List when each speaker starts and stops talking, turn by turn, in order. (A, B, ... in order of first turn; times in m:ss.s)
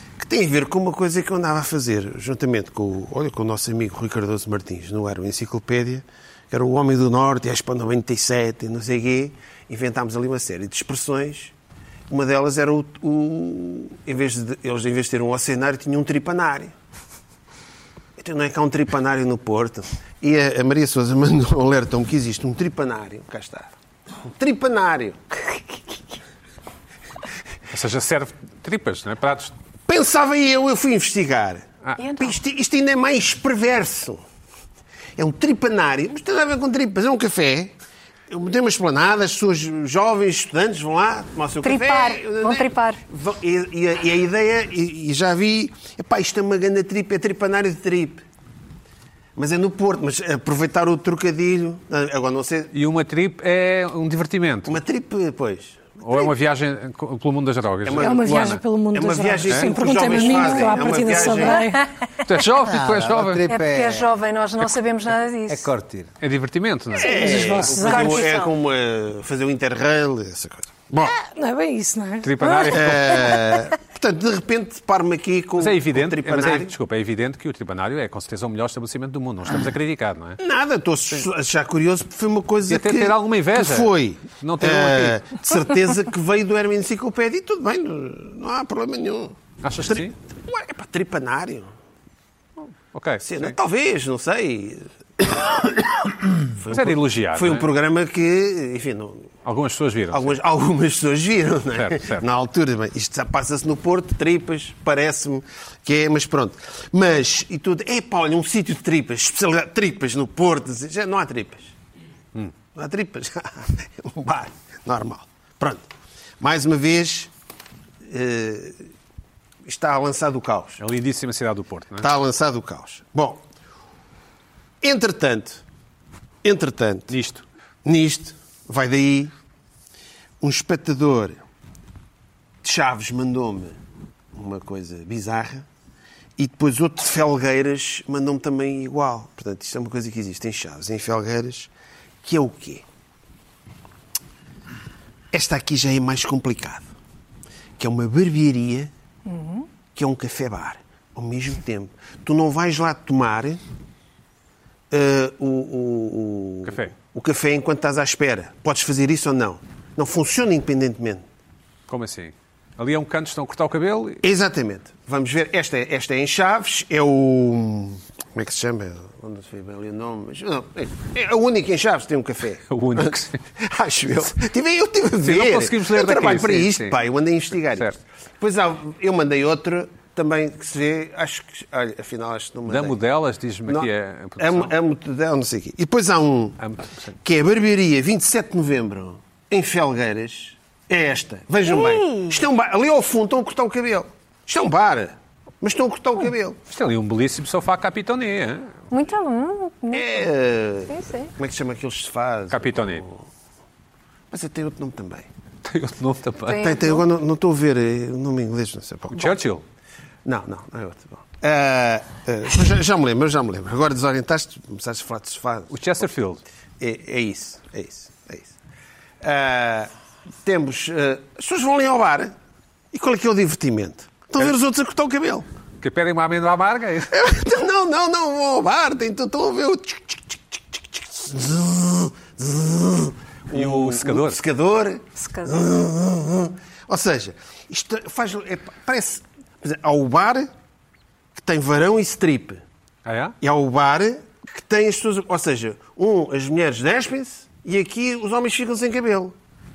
0:00.2-0:11.5 A
0:12.1-0:16.7 A
0:18.2-0:23.7 A
0:24.3-0:25.2 A
0:27.7-0:29.5 B
0:29.9-0:34.2 A
0:32.0-0:32.4 C
0:35.2-0:37.7 A
0:38.3-0:48.2 A
0:41.6-0:43.0 C
0:49.4-0:52.7 A
0:52.7-0:54.7 B
0:54.7-0:56.3 A
0:56.0-0:58.6 B
0:57.9-1:01.6 A
0:58.0-1:01.9 D
1:01.4-1:01.8 C
1:02.2-1:03.4 B
1:02.6-1:04.1 E
1:03.5-1:05.7 C
1:05.5-1:06.1 E
1:06.2-1:07.6 B
1:07.0-1:11.2 A
1:07.0-1:08.4 D
1:07.2-1:08.5 C
1:11.1-1:12.4 D
1:12.2-1:13.4 B
1:12.7-1:16.7 A
1:15.6-1:20.4 B
1:20.4-1:29.4 A
1:22.7-1:25.2 B
1:29.6-1:30.1 B
1:29.9-1:31.7 A
1:32.9-1:33.5 B
1:33.2-1:39.3 A
1:36.7-1:37.7 B
1:39.4-1:40.4 B
1:40.1-1:51.7 A
1:41.8-1:42.2 B
1:52.8-1:55.9 A
1:56.4-1:57.3 A
1:58.0-1:58.8 A
1:59.6-2:00.8 A
2:00.8-2:02.1 B
2:02.0-2:03.4 A
2:04.8-2:05.6 A
2:06.4-2:07.2 A
2:07.1-2:07.4 B
2:07.8-2:09.3 A
2:10.4-2:11.4 A
2:12.6-2:13.8 A
2:14.3-2:15.7 A
2:16.4-2:21.7 A
2:22.2-2:22.8 A
2:25.3-2:26.9 A
2:27.8-2:28.9 A
2:29.3-2:29.6 C
2:29.9-2:33.6 A
2:34.9-2:41.3 A
2:36.6-2:36.9 B
2:41.9-2:44.2 B
2:44.2-3:03.0 A
2:52.7-2:53.4 B
2:55.2-2:57.0 B
3:02.7-3:04.7 B
3:03.7-3:06.6 A
3:06.6-3:07.2 B
3:07.2-3:16.6 A
3:11.6-3:12.4 C
3:16.7-3:18.8 B
3:18.9-3:20.3 C
3:19.9-3:23.2 A
3:20.9-3:21.3 C
3:22.5-3:23.0 B
3:24.3-3:25.3 A
3:25.6-3:26.8 B
3:26.5-3:27.0 C
3:26.6-3:29.4 A
3:29.1-3:29.6 B
3:30.2-3:35.7 A
3:35.7-3:36.4 B
3:36.8-3:38.5 A
3:39.2-3:39.9 A
3:40.4-3:42.3 A
3:42.9-3:45.5 A
3:45.8-3:47.1 B
3:47.1-4:00.5 A
3:53.5-3:54.4 B
3:55.2-3:55.7 C
4:01.3-4:02.6 A
4:03.0-4:03.4 B
4:03.4-4:09.3 A